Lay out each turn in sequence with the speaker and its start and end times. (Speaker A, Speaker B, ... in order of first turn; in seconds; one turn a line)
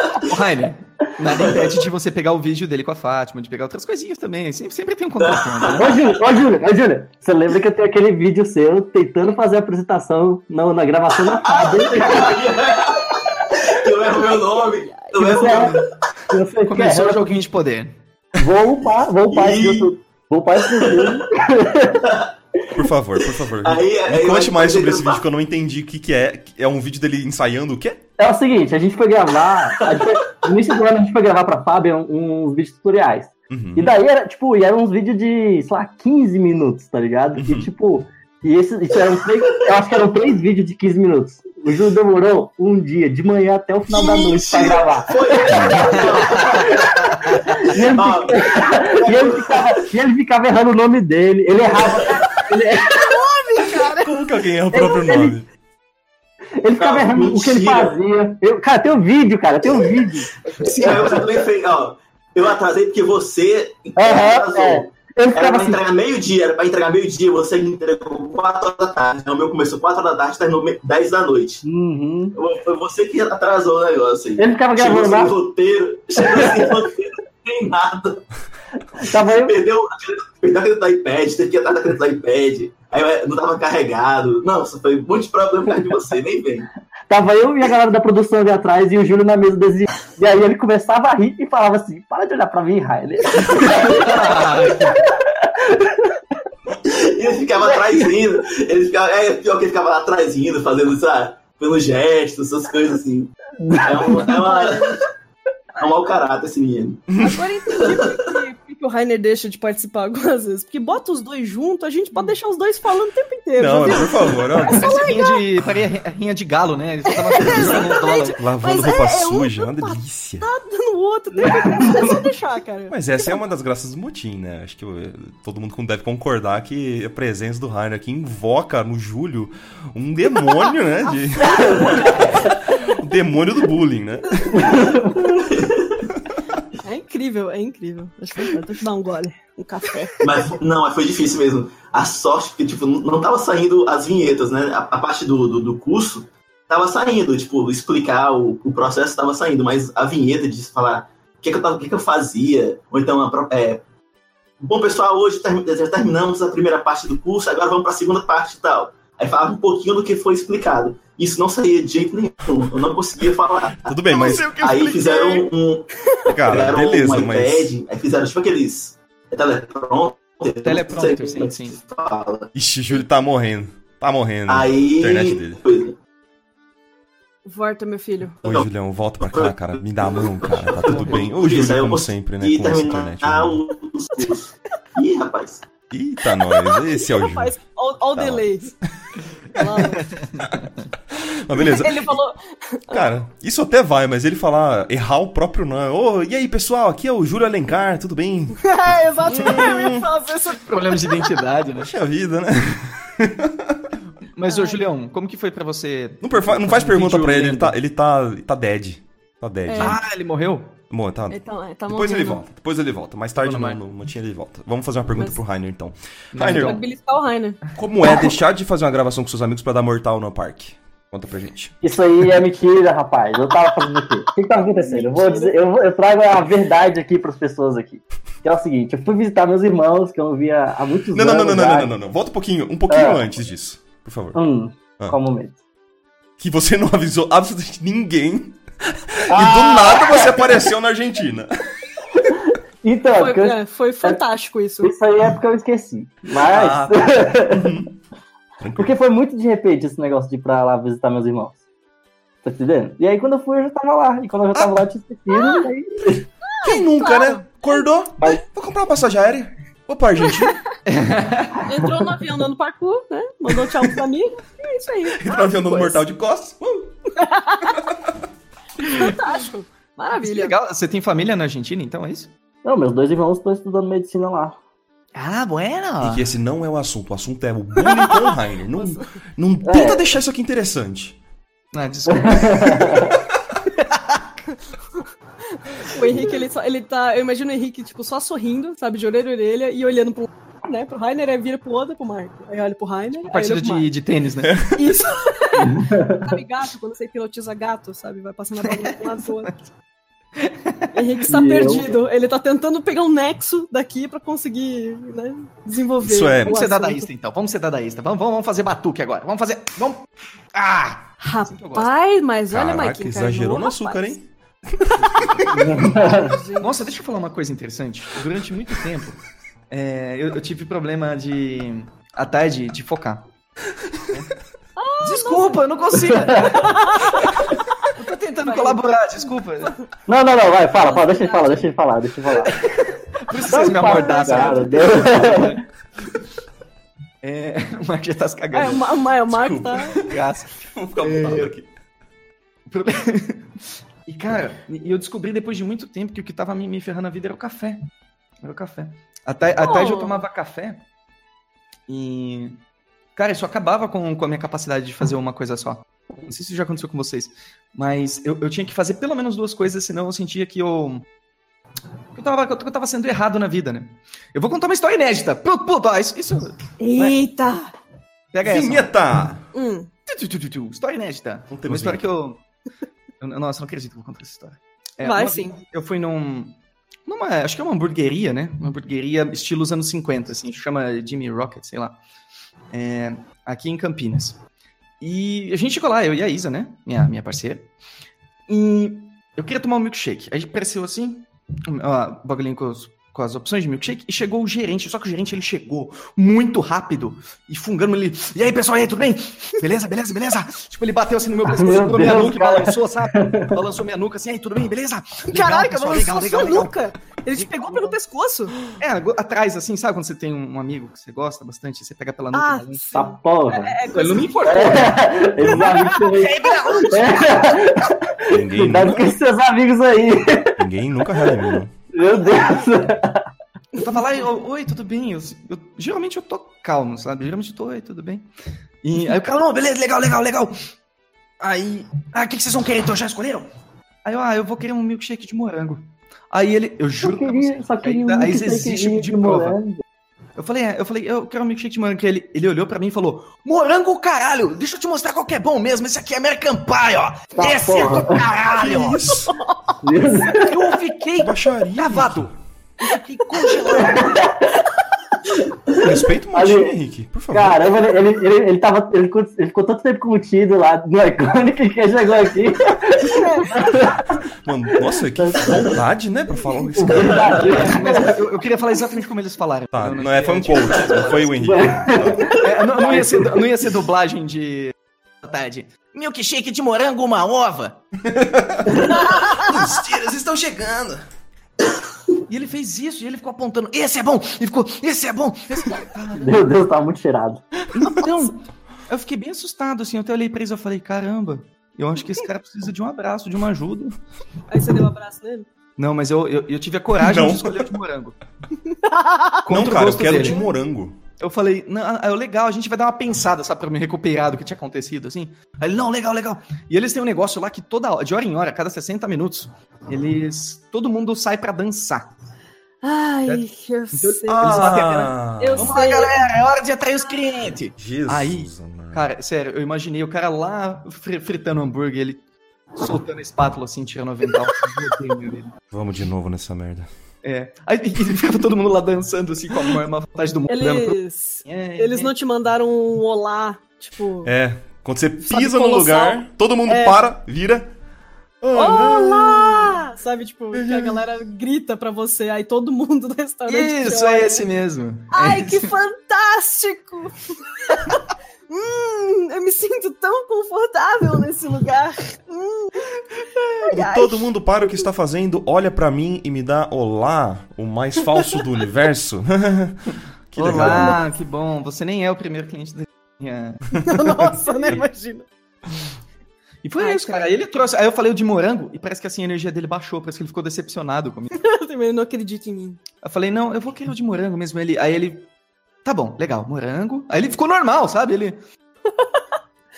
Speaker A: 0.2-6.0
Speaker B: 1.3-1.8
Speaker B: 5.2-5.9
Speaker C: 5.8-12.5
Speaker B: 11.3-15.9
Speaker C: 15.1-17.3
Speaker A: 15.4-15.8
Speaker A: 16.6-17.9
Speaker C: 18.4-22.1
Speaker B: 19.3-19.9
Speaker B: 20.8-21.1
Speaker D: 22.7-28.0
Speaker B: 23.6-25.2
Speaker C: 28.2-47.0
Speaker B: 29.8-30.1
Speaker D: 33.5-33.9
Speaker D: 37.4-37.7
Speaker B: 43.9-49.9
Speaker D: 45.5-45.9
Speaker A: 47.0-47.6
Speaker C: 47.6-53.2
Speaker B: 51.7-52.2
Speaker E: 52.9-54.2
Speaker D: 54.0-55.5
Speaker C: 54.7-55.3
Speaker C: 56.6-61.1
Speaker B: 56.8-58.0
Speaker B: 60.5-71.6
Speaker C: 64.0-65.8
Speaker C: 71.6-72.4
Speaker B: 72.3-78.2
Speaker C: 74.4-75.3
Speaker C: 76.2-76.7
Speaker C: 79.0-79.6
Speaker B: 79.0-86.7
Speaker C: 87.1-96.2
Speaker A: 93.5-95.0
Speaker B: 96.8-105.0
Speaker C: 97.6-98.0
Speaker C: 103.6-104.5
Speaker E: 104.3-105.0
Speaker B: 105.8-108.2
Speaker D: 107.1-107.4
Speaker E: 107.2-115.4
Speaker D: 113.6-115.0
Speaker A: 114.7-118.4
Speaker E: 117.3-123.3
Speaker D: 118.4-120.5
Speaker C: 121.4-122.0
Speaker D: 122.9-134.9
Speaker E: 131.4-132.2
Speaker C: 131.7-132.0
Speaker C: 134.5-135.1
Speaker E: 134.6-135.2
Speaker B: 135.3-136.0
Speaker E: 136.8-140.3
Speaker B: 140.2-153.8
Speaker B: 154.6-165.9
Speaker D: 163.8-164.6
Speaker A: 164.1-165.4
Speaker D: 166.3-167.7
Speaker B: 166.4-172.5
Speaker A: 170.6-171.8
Speaker D: 172.5-175.6
Speaker B: 174.5-176.0
Speaker E: 177.4-178.4
Speaker D: 178.4-183.6
Speaker B: 179.3-185.6
Speaker D: 185.9-187.6
Speaker E: 186.5-188.8
Speaker D: 188.1-188.4
Speaker E: 189.5-190.2
Speaker A: 190.0-190.8
Speaker D: 191.1-192.2
Speaker E: 191.2-193.1
Speaker D: 192.9-200.1
Speaker E: 198.6-201.2
Speaker A: 200.6-201.9
Speaker D: 201.8-203.9
Speaker A: 204.3-207.8
Speaker E: 204.4-204.8
Speaker D: 206.2-210.0
Speaker E: 209.7-210.0
Speaker A: 209.8-210.7
Speaker D: 210.9-216.8
Speaker E: 211.3-212.4
Speaker A: 213.4-213.8
Speaker E: 215.1-215.4
Speaker A: 216.3-216.8
Speaker E: 216.4-217.6
Speaker D: 217.7-221.8
Speaker C: 221.8-231.9
Speaker E: 224.7-225.5
Speaker D: 231.1-234.4
Speaker C: 232.9-233.2
Speaker C: 234.3-235.6
Speaker D: 236.4-241.6
Speaker C: 239.3-240.4
Speaker C: 242.3-244.2
Speaker E: 243.2-244.9
Speaker C: 244.8-247.8
Speaker D: 246.4-247.9
Speaker D: 248.6-248.9
Speaker C: 248.8-251.6
Speaker C: 252.4-256.3
Speaker D: 254.5-254.8
Speaker E: 255.3-255.7
Speaker E: 256.5-257.8
Speaker D: 256.6-260.6
Speaker A: 260.9-261.7
Speaker E: 261.6-265.7
Speaker D: 265.2-267.0
Speaker A: 265.6-266.0
Speaker E: 267.1-267.8
Speaker E: 268.8-270.5
Speaker A: 268.8-269.1
Speaker A: 270.2-272.3
Speaker C: 272.6-274.6
Speaker A: 275.1-276.3
Speaker D: 276.0-281.2
Speaker E: 278.8-279.0
Speaker C: 279.6-280.1
Speaker A: 281.7-283.0
Speaker C: 282.1-283.1
Speaker A: 283.8-284.2
Speaker E: 285.7-293.9
Speaker A: 293.3-294.8
Speaker E: 294.7-299.5
Speaker C: 295.6-296.4
Speaker A: 298.6-299.6
Speaker A: 300.4-301.0
Speaker E: 300.9-307.1
Speaker C: 301.2-302.0
Speaker D: 306.0-306.6
Speaker A: 306.4-311.9
Speaker E: 311.2-314.1
Speaker D: 312.5-315.7
Speaker A: 315.0-315.5
Speaker C: 315.5-316.4
Speaker E: 315.8-316.8
Speaker A: 316.6-319.2
Speaker A: 319.7-323.3
Speaker E: 324.8-325.6
Speaker A: 325.0-329.8
Speaker E: 326.5-327.4
Speaker E: 328.4-328.8
Speaker C: 330.1-332.6
Speaker E: 330.8-331.7
Speaker A: 332.6-335.6
Speaker C: 333.5-335.6
Speaker E: 333.8-334.7
Speaker A: 337.2-338.9
Speaker E: 338.5-340.0
Speaker D: 339.3-340.1
Speaker A: 340.0-341.5
Speaker D: 340.6-341.7
Speaker A: 342.7-347.8
Speaker A: 348.4-350.8
Speaker E: 349.6-350.2
Speaker A: 351.9-352.6
Speaker A: 353.1-361.0
Speaker A: 362.1-367.2
Speaker E: 366.8-367.7
Speaker A: 368.3-368.9
Speaker D: 368.4-369.4
Speaker E: 369.5-369.9
Speaker A: 370.1-372.4
Speaker D: 371.5-372.1
Speaker A: 373.2-382.0
Speaker E: 375.0-375.6
Speaker A: 382.7-384.4
Speaker A: 385.0-387.7
Speaker A: 388.5-406.8
Speaker C: 401.4-403.6
Speaker E: 405.3-408.5
Speaker A: 407.3-407.9
Speaker A: 408.7-412.8
Speaker E: 412.3-414.8
Speaker C: 412.9-413.8
Speaker A: 413.9-417.8
Speaker C: 414.4-420.6
Speaker D: 415.4-415.8
Speaker D: 418.3-419.1
Speaker D: 420.6-421.7
Speaker C: 421.1-423.2
Speaker A: 423.8-428.2
Speaker A: 428.8-430.6
Speaker A: 431.4-433.5
Speaker A: 434.0-439.6
Speaker C: 437.0-439.8
Speaker A: 440.4-449.0
Speaker C: 447.3-448.2
Speaker D: 448.5-449.3
Speaker E: 449.3-449.7
Speaker C: 449.8-450.5
Speaker A: 450.3-454.1
Speaker D: 451.2-452.3
Speaker E: 453.3-453.6
Speaker C: 453.7-454.4
Speaker D: 455.8-457.7
Speaker C: 455.9-456.8
Speaker C: 457.3-464.1
Speaker E: 463.0-463.7
Speaker D: 464.4-467.5
Speaker C: 464.8-465.8
Speaker C: 466.5-468.1
Speaker A: 467.2-471.4
Speaker D: 469.7-472.4
Speaker C: 471.4-473.4
Speaker A: 472.3-477.8
Speaker D: 478.1-481.0
Speaker E: 478.9-479.5
Speaker A: 482.3-486.4
Speaker C: 486.1-487.4
Speaker A: 487.7-493.9
Speaker E: 494.5-495.5
Speaker A: 495.8-498.2
Speaker D: 497.0-497.7
Speaker E: 498.6-499.5
Speaker A: 499.4-500.4
Speaker D: 499.5-501.0
Speaker A: 501.2-512.1
Speaker E: 512.8-514.8
Speaker A: 513.2-522.2
Speaker D: 514.3-515.8
Speaker E: 515.4-516.2
Speaker D: 517.8-519.1
Speaker A: 522.7-525.5
Speaker D: 525.7-526.9
Speaker A: 527.2-532.1
Speaker E: 530.5-534.3
Speaker D: 534.2-537.7
Speaker E: 535.2-537.0
Speaker D: 538.4-539.8
Speaker E: 538.5-544.5
Speaker D: 540.5-541.0
Speaker A: 543.5-545.7
Speaker E: 545.1-554.8
Speaker D: 553.6-561.0
Speaker A: 560.4-563.8
Speaker E: 560.5-561.0
Speaker E: 563.8-565.3
Speaker A: 566.6-571.4
Speaker E: 566.8-567.4
Speaker E: 571.4-572.8
Speaker A: 573.0-575.3
Speaker A: 575.8-578.4
Speaker E: 578.9-579.2